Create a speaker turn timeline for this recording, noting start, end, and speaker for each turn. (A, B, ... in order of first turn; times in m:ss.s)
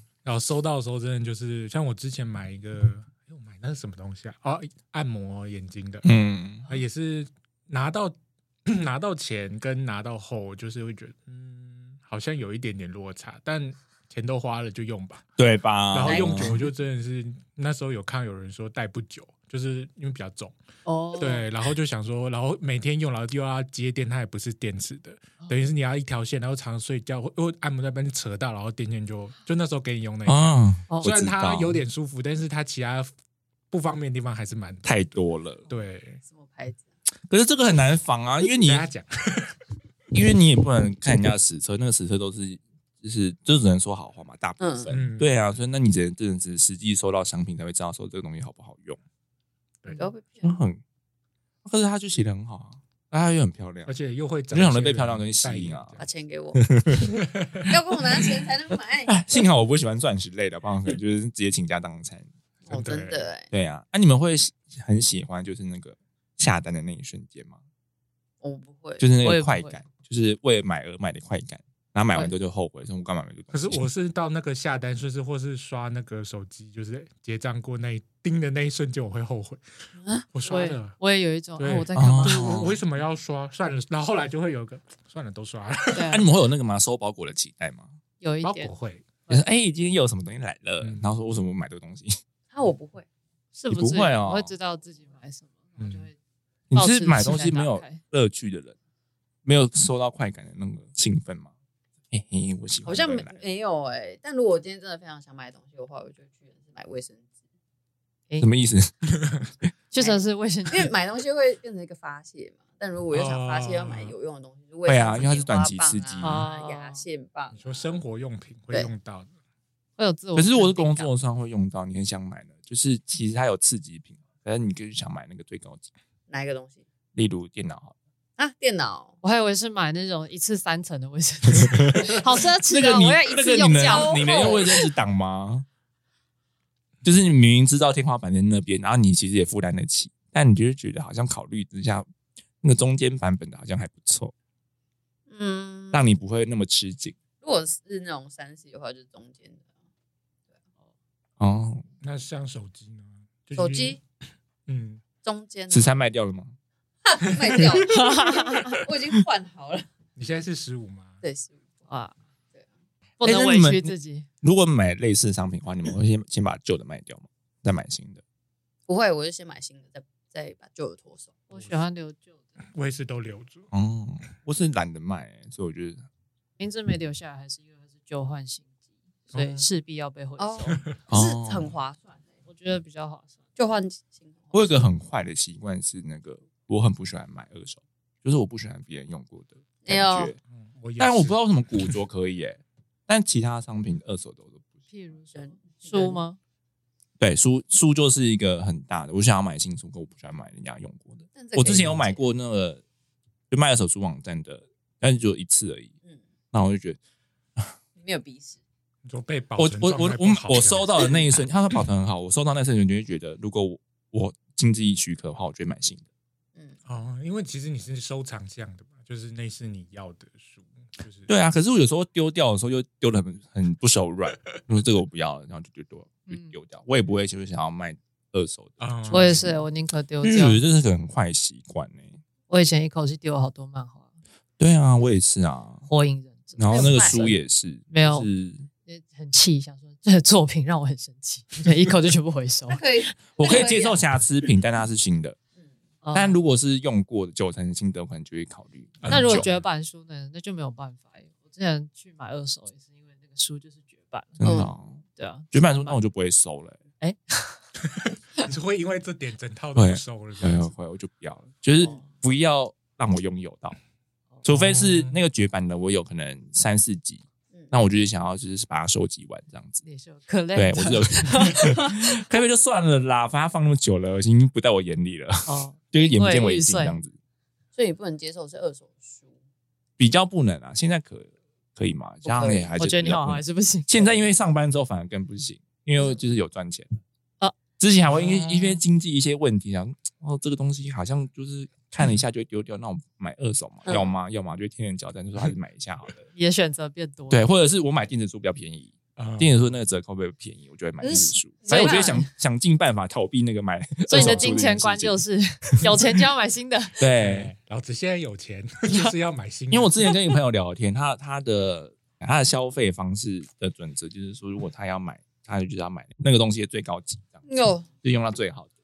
0:00.2-0:06.1 A
0:06.0-0:06.7 B
0:06.6-0:15.2 A
0:15.4-0:16.6 B
0:15.9-0:20.5 A
0:16.0-0:16.6 C
0:20.8-0:21.4 D
0:21.2-0:33.1 A
0:30.2-0:31.8 B
0:33.7-0:35.0 A
0:34.8-0:35.6 B
0:35.7-0:36.2 A
0:36.2-0:36.8 C
0:37.3-0:38.9 B
0:38.6-0:39.6 A
0:40.1-0:49.0 B
0:44.6-0:44.9 C
0:44.9-0:45.3 A
0:50.0-0:50.6 C
0:50.4-0:50.8 B
0:51.6-0:53.9 B
0:53.8-0:56.1 A
0:54.5-0:55.9 B
0:56.0-0:56.6 C
0:56.6-0:57.1 B
0:57.2-0:57.7 A
0:57.6-0:59.3 C
0:59.1-1:02.3 B
1:02.6-1:03.5 C
1:02.7-1:03.3 A
1:03.5-1:07.6 B
1:08.4-1:09.0 C
1:09.0-1:13.9 B
1:09.2-1:09.8 D
1:13.5-1:19.6 A
1:20.3-1:21.0 A
1:20.4-1:22.7 D
1:21.6-1:26.2 A
1:22.0-1:22.8 B
1:25.9-1:26.2 D
1:26.1-1:28.0 B
1:28.2-1:28.7 D
1:28.4-1:29.1 A
1:29.3-1:32.2 B
1:30.8-1:31.1 A
1:32.5-1:33.0 C
1:33.5-1:36.2 D
1:33.7-1:34.5 B
1:35.8-1:36.1 A
1:36.7-1:38.8 B
1:36.7-1:38.0 D
1:39.4-1:41.5 B
1:42.1-1:43.4 B
1:42.8-1:47.2 C
1:48.4-1:48.9 B
1:49.9-1:50.9 D
1:50.0-1:57.9 C
1:53.1-1:54.2 A
1:54.8-1:56.4 B
1:56.2-1:57.0 D
1:57.5-1:59.3 A
2:00.0-2:01.1 D
2:00.4-2:05.8 B
2:06.3-2:06.8 C
2:07.1-2:08.0 B
2:08.4-2:09.1 C
2:09.2-2:14.7 D
2:11.6-2:12.1 B
2:12.7-2:15.6 B
2:13.6-2:14.8 C
2:17.0-2:22.1 B
2:22.6-2:24.3 B
2:25.3-2:26.1 C
2:25.9-2:27.2 B
2:27.4-2:29.6 C
2:31.4-2:31.8 B
2:32.0-2:34.0 A
2:33.6-2:34.0 C
2:34.7-2:35.0 A
2:35.2-2:36.0 C
2:35.7-2:36.5 B
2:37.0-2:39.8 C
2:37.5-2:37.9 A
2:37.9-2:38.8 D
2:40.2-2:41.2 A
2:41.2-2:41.6 C
2:41.9-2:42.1 D
2:43.2-2:44.2 D
2:43.2-2:48.2 B
2:48.9-2:51.3 C
2:51.5-2:52.4 D
2:51.5-2:51.8 A
2:52.7-2:53.7 A
2:53.7-2:56.0 B
2:56.6-2:58.7 D
2:59.3-3:00.8 D
2:59.3-2:59.7 A
3:00.4-3:02.2 C
3:01.1-3:01.7 B
3:02.5-3:03.3 D
3:03.6-3:04.8 C
3:04.5-3:10.4 B
3:09.8-3:10.3 C
3:10.5-3:11.4 A
3:11.0-3:14.6 B
3:14.9-3:16.4 D
3:15.3-3:16.2 C
3:17.2-3:22.8 B
3:21.4-3:22.2 C
3:23.5-3:25.9 B
3:26.5-3:27.0 B
3:28.0-3:28.6 C
3:29.0-3:31.2 A
3:29.6-3:36.0 B
3:36.8-3:41.3 A
3:41.3-3:49.5 B
3:46.3-3:46.5 D
3:48.8-3:49.6 A
3:49.1-3:50.6 D
3:50.2-3:52.2 B
3:52.5-3:54.0 D
3:54.6-3:55.8 B
3:55.9-3:57.1 D
3:56.6-3:58.7 B
3:56.7-3:57.4 C
3:57.9-3:58.3 D
3:58.8-4:02.8 D
4:02.7-4:04.0 C
4:03.4-4:05.4 B
4:06.0-4:06.4 D
4:06.1-4:09.5 B
4:09.0-4:09.5 A
4:09.1-4:14.6 D
4:14.4-4:15.0 B
4:14.4-4:14.7 C
4:15.2-4:16.0 D
4:15.5-4:16.8 B
4:17.0-4:17.6 D
4:17.9-4:20.7 A
4:19.7-4:23.8 B
4:24.4-4:29.8 B
4:24.5-4:25.2 A
4:29.8-4:32.2 D
4:30.5-4:37.1 B
4:35.4-4:37.0 D
4:37.8-4:39.3 C
4:40.0-4:46.9 B
4:42.2-4:42.7 C
4:42.8-4:44.1 D
4:47.8-4:56.2 B
4:53.8-4:54.1 C
4:56.3-4:57.4 D
4:57.3-5:05.2 B
4:59.2-4:59.7 A
5:01.0-5:02.2 C
5:01.7-5:02.3 D
5:04.1-5:06.9 D
5:04.1-5:04.5 A
5:07.0-5:07.5 B
5:07.2-5:10.2 A
5:08.9-5:09.1 D
5:09.7-5:17.4 B
5:17.4-5:17.9 C
5:18.0-5:18.7 B